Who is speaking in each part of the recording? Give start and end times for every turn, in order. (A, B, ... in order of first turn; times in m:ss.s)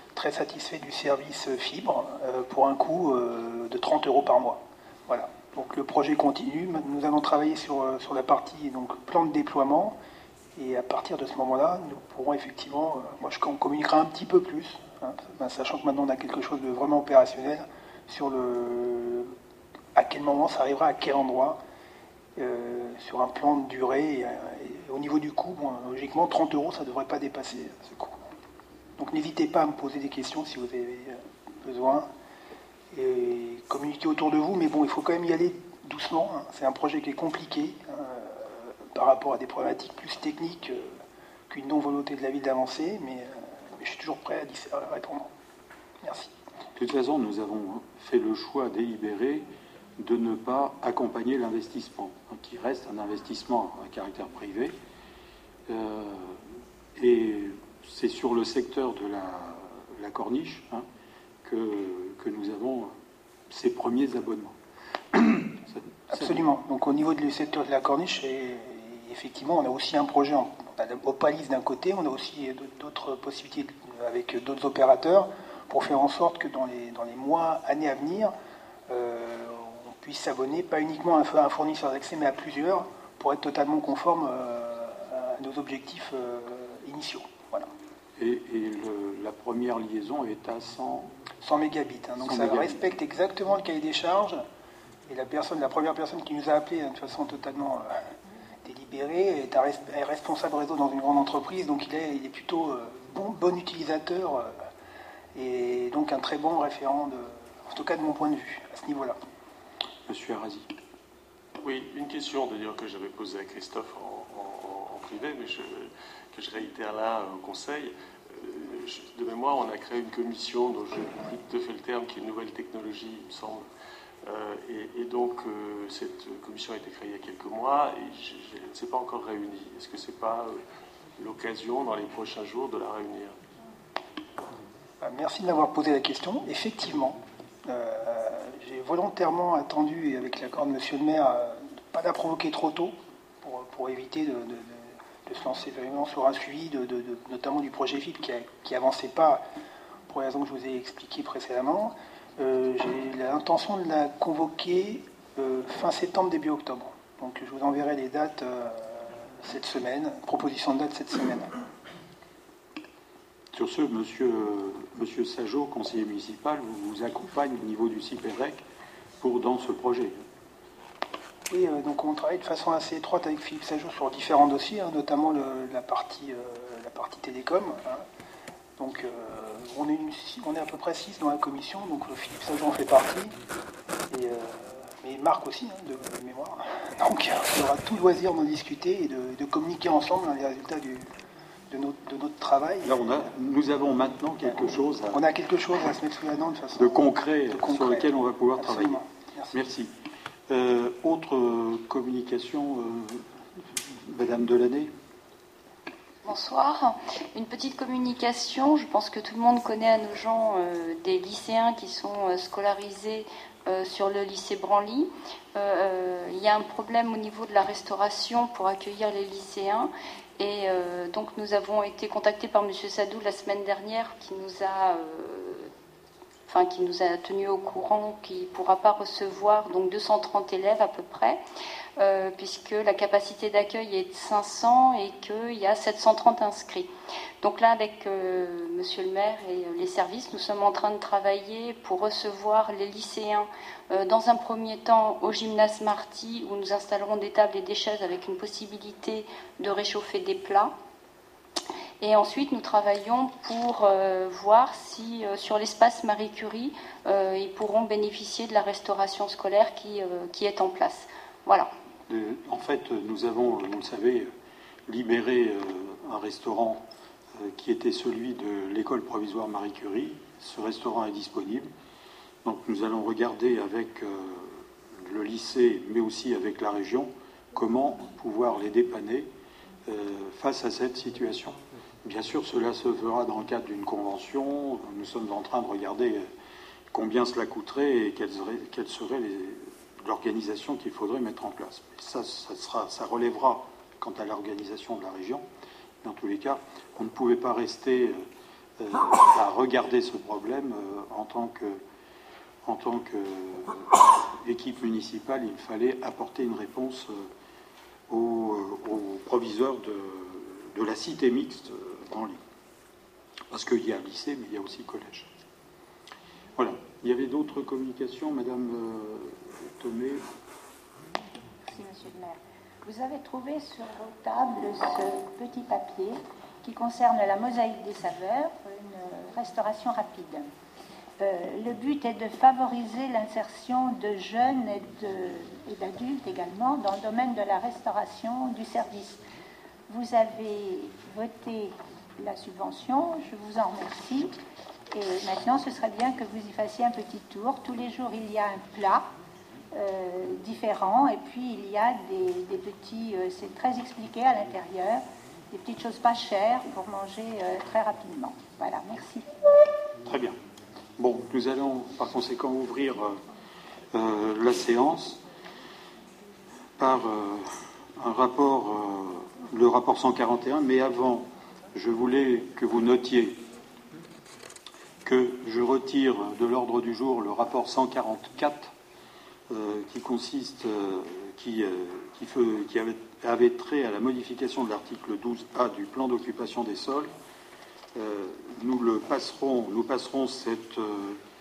0:00.1-0:10.0 A
0:10.6-0:19.3 A
0:19.9-0:21.6 A
0:22.4-0:28.2 A
0:29.0-0:32.1 A
0:32.9-0:40.9 A
0:41.5-0:45.3 A
0:46.0-0:46.3 A
0:46.8-0:49.5 B
0:50.0-0:54.8 B
0:55.7-0:56.4 B
0:57.0-1:00.8 B
1:01.4-1:02.9 B
1:03.5-1:04.5 B
1:05.1-1:06.4 B
1:06.1-1:18.3 A
1:18.9-1:27.7 A
1:28.2-1:31.1 B
1:31.4-1:34.4 A
1:32.2-1:32.8 B
1:35.1-1:38.0 A
1:38.6-1:44.5 A
1:45.3-1:49.2 A
1:50.1-1:50.7 B
1:51.6-2:03.6 C
2:04.2-2:10.6 C
2:11.2-2:13.4 C
2:15.0-2:29.4 A
2:30.1-2:41.5 A
2:43.5-2:48.6 B
2:49.2-2:50.2 B
2:51.5-2:58.0 A
2:58.8-3:03.3 A
3:04.1-3:11.1 A
3:11.7-3:13.2 A
3:12.8-3:15.2 B
3:15.1-3:16.9 A
3:16.7-3:19.0 B
3:17.5-3:19.6 A
3:19.5-3:19.9 B
3:20.5-3:24.9 B
3:26.2-3:45.7 D
3:46.5-3:51.4 D
3:52.0-3:56.9 D
3:57.4-4:10.7 D
4:12.0-4:21.7 D
4:22.1-4:24.3 B
4:24.9-4:26.8 B
4:27.4-4:31.7 B
4:32.4-4:39.3 B
4:39.9-4:46.3 B
4:46.9-4:55.4 B
4:56.0-4:58.2 B
4:58.8-5:01.8 B
5:02.6-5:07.2 B
5:08.1-5:12.4 B
5:13.5-5:15.3 B
5:16.6-5:20.2 B
5:21.6-5:30.5 E
5:31.2-5:39.2 E
5:39.9-5:44.4 E
5:44.9-5:49.1 E
5:49.7-5:59.3 E
6:00.0-6:00.4 B
6:01.0-6:03.2 B
6:03.9-6:05.2 B
6:06.8-6:13.4 B
6:15.0-6:18.7 B
6:19.5-6:27.1 B
6:27.9-6:31.2 B